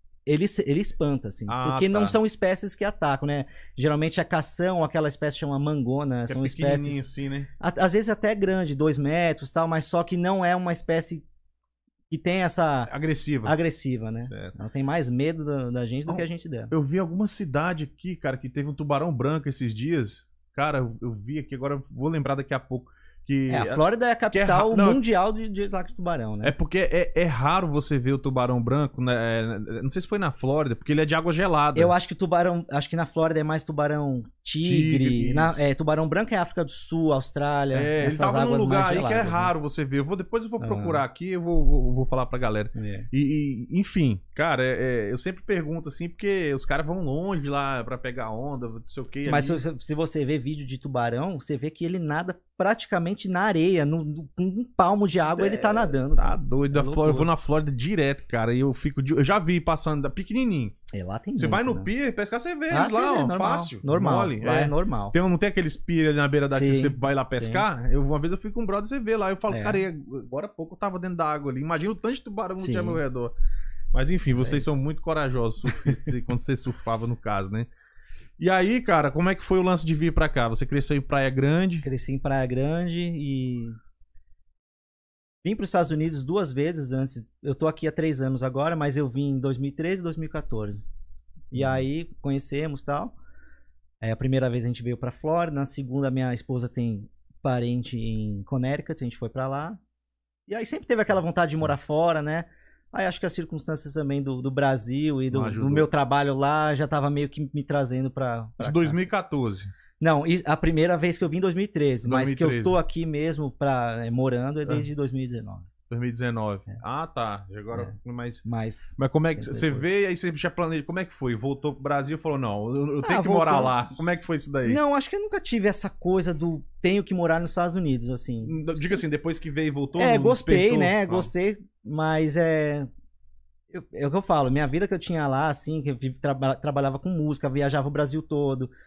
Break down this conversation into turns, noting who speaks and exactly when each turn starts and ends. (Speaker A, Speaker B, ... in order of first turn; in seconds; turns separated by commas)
Speaker A: 0.2-7.0, Speaker B: 1.5-2.2, Speaker B: 6.3-7.5, Speaker A: 7.6-11.2, Speaker A: 12.1-12.9, Speaker B: 12.9-13.6, Speaker A: 13.4-16.7, Speaker B: 14.3-14.5, Speaker B: 16.1-23.8, Speaker A: 23.5-26.5, Speaker B: 24.3-25.0, Speaker B: 26.4-31.9, Speaker A: 31.7-39.5, Speaker B: 34.6-35.6, Speaker B: 37.7-49.6, Speaker A: 40.6-41.0, Speaker A: 42.7-43.1, Speaker A: 49.3-57.3, Speaker B: 55.3-60.8, Speaker A: 60.9-61.9, Speaker B: 61.4-73.3, Speaker A: 62.7-65.2, Speaker A: 66.5-67.6, Speaker A: 69.5-69.8, Speaker A: 72.6-73.0, Speaker B: 73.9-77.7, Speaker A: 74.3-74.7, Speaker B: 78.4-81.8, Speaker A: 81.8-83.8, Speaker A: 85.4-90.8, Speaker A: 91.5-93.1, Speaker A: 94.0-99.8, Speaker A: 100.5-109.0, Speaker B: 105.3-105.9, Speaker B: 108.6-109.7, Speaker A: 110.0-115.7, Speaker B: 112.0-112.8, Speaker B: 115.9-118.4, Speaker A: 118.4-119.8, Speaker B: 119.0-124.8, Speaker A: 123.0-123.7, Speaker A: 124.6-129.0, Speaker B: 128.4-131.3, Speaker A: 130.0-132.9, Speaker A: 133.7-138.7